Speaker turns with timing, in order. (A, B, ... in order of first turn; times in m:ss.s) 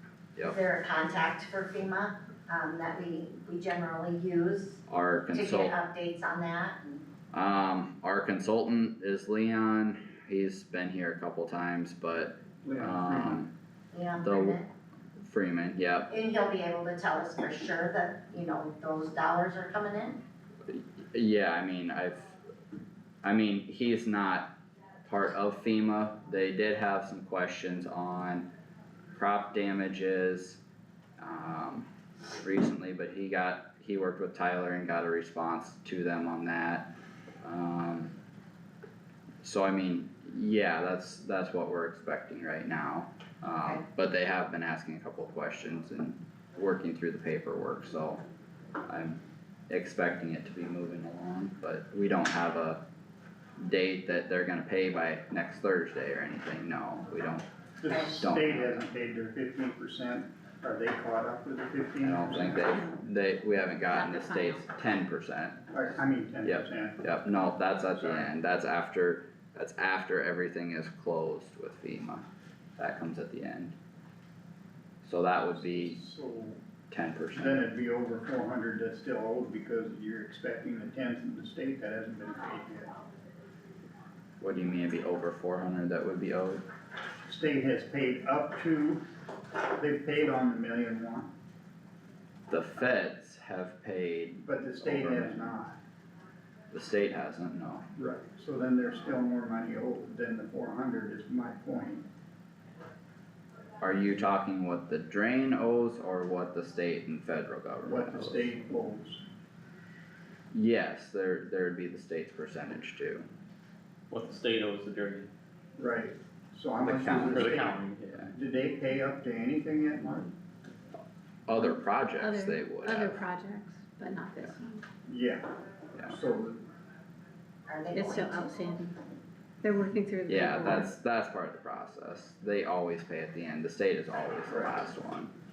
0:00.4-0:04.8 A
0:04.9-0:05.8 B
0:05.3-0:07.0 A
0:07.3-0:13.5 B
0:12.6-0:13.4 C
0:13.9-0:14.7 A
0:14.2-0:14.6 B
0:15.2-0:16.1 B
0:16.1-0:20.2 A
0:20.7-0:22.4 B
0:23.2-0:28.5 B
0:29.1-0:30.6 B
0:31.2-0:31.9 B
0:32.4-0:36.9 B
0:37.4-0:38.1 B
0:39.4-0:48.2 B
0:48.9-0:52.8 B
0:53.6-0:57.5 B
0:57.8-1:02.8 C
0:57.9-0:58.2 A
0:58.2-0:58.9 B
1:02.0-1:05.6 B
1:03.9-1:04.7 D
1:05.7-1:07.0 C
1:06.4-1:12.2 B
1:08.0-1:08.3 C
1:12.8-1:13.8 B
1:15.0-1:16.0 B
1:15.6-1:16.6 C
1:16.9-1:17.6 B
1:17.4-1:22.9 C
1:24.4-1:26.6 B
1:27.3-1:29.0 C
1:29.8-1:31.3 C
1:32.5-1:35.6 B
1:34.4-1:35.8 C
1:36.7-1:37.9 B
1:38.0-1:42.0 C
1:43.8-1:48.5 B
1:47.8-1:49.2 C
1:50.5-1:53.3 B
1:54.1-1:55.3 E
1:55.8-2:00.3 C
1:56.8-1:58.3 B
1:57.1-1:58.1 E
2:01.5-2:03.2 B
2:01.6-2:04.8 D
2:05.1-2:05.5 C
2:06.0-2:06.6 C
2:07.7-2:08.6 A
2:07.9-2:09.0 D
2:09.6-2:10.9 D
2:10.3-2:15.3 B